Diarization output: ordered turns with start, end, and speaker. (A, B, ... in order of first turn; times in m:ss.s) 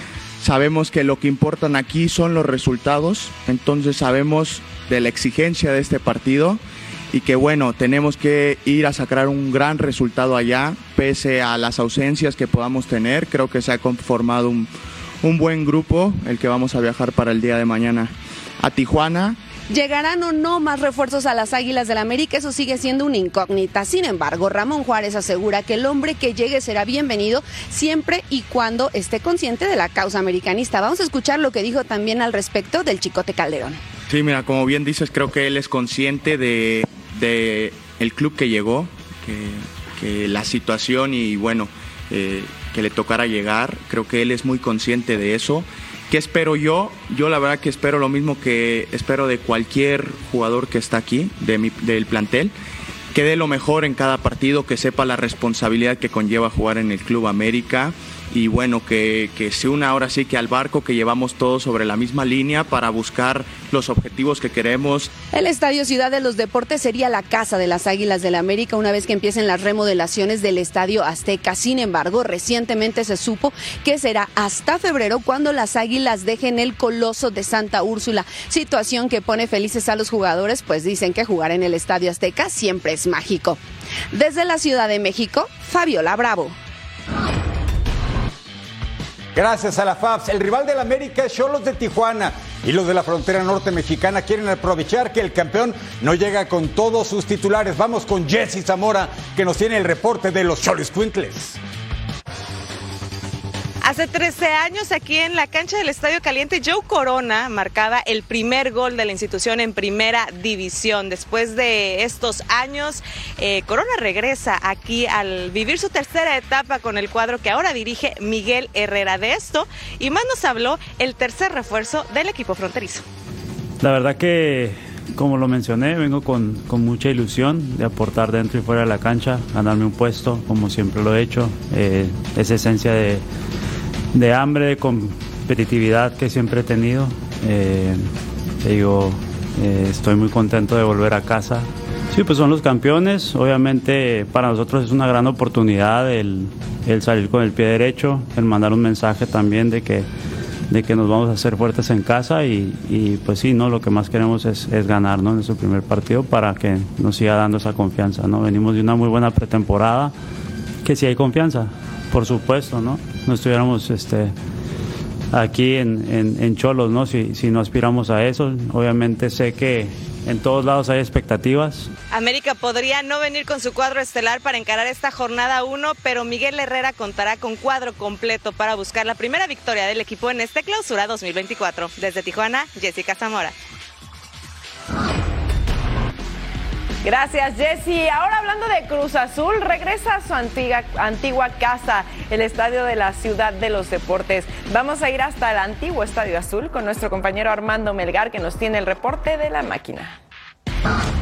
0:00.4-0:19.4 A
0:19.7-0:33.8 B
0:34.1-0:52.6 A
0:53.1-1:05.2 A
1:05.3-1:23.6 B
1:24.1-1:26.5 B
1:29.4-1:41.6 C
1:43.8-2:03.0 D
2:03.8-2:13.2 E
2:14.1-2:18.1 E
2:18.6-2:30.1 E
2:30.7-2:40.2 E
2:40.8-2:44.3 E
2:45.3-2:51.9 E
2:52.1-3:03.5 D
3:07.0-3:20.2 F